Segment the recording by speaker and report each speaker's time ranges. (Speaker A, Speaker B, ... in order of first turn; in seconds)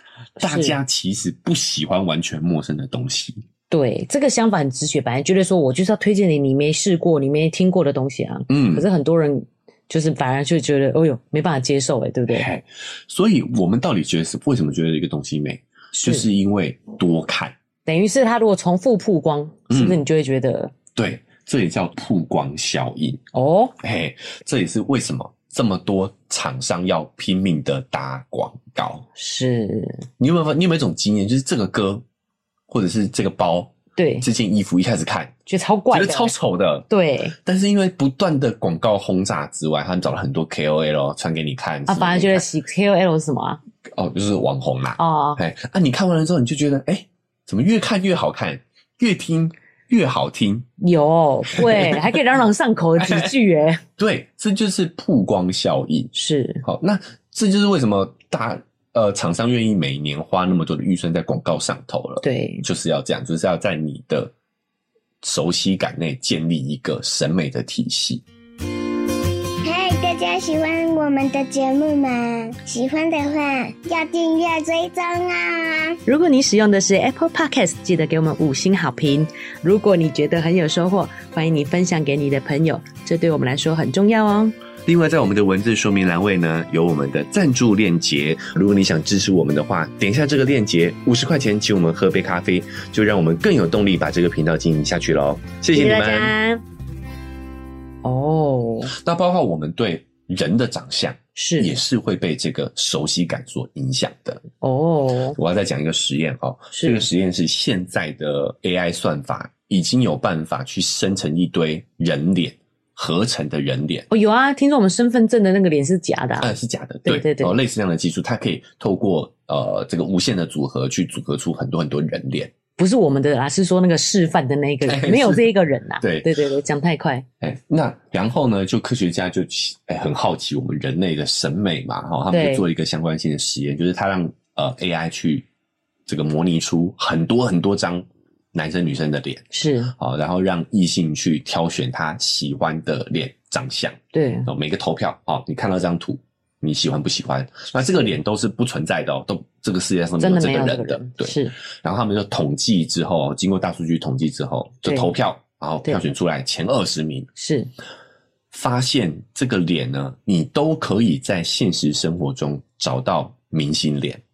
Speaker A: 0.4-0.8, 3.7-12.5, 15.9-16.3, 17.9-20.7, 23.3-23.7, 29.1-30.0, 34.0-34.3, 35.5-36.3, 36.9-37.3, 41.9-43.6, 45.0-45.4, 50.8-53.8, 56.1-56.6, 62.2-62.6, 76.0-84.5, 95.7-96.6, 98.0-98.9, 101.3-101.7, 104.6-105.4, 106.7-107.0, 114.1-116.5, 117.0-117.5, 122.8-127.2, 132.3-132.7, 139.5-139.9, 144.1-144.5, 150.2-151.5, 157.3-157.7
Speaker B: 0.4-3.4, 8.5-8.9, 12.3-17.6, 19.7-20.0, 20.9-23.2, 23.8-29.1, 30.2-32.0, 32.7-35.3, 35.9-36.9, 37.4-42.5, 43.9-50.7, 51.5-52.1, 53.0-53.3, 54.0-56.1, 56.6-64.3, 65.2-68.2, 84.8-96.3, 98.9-104.4, 105.3-114.1, 116.4-122.5, 124.8-126.3, 127.4-135.5, 136.1-157.3, 158.5-164.2
Speaker C: 69.6-76.0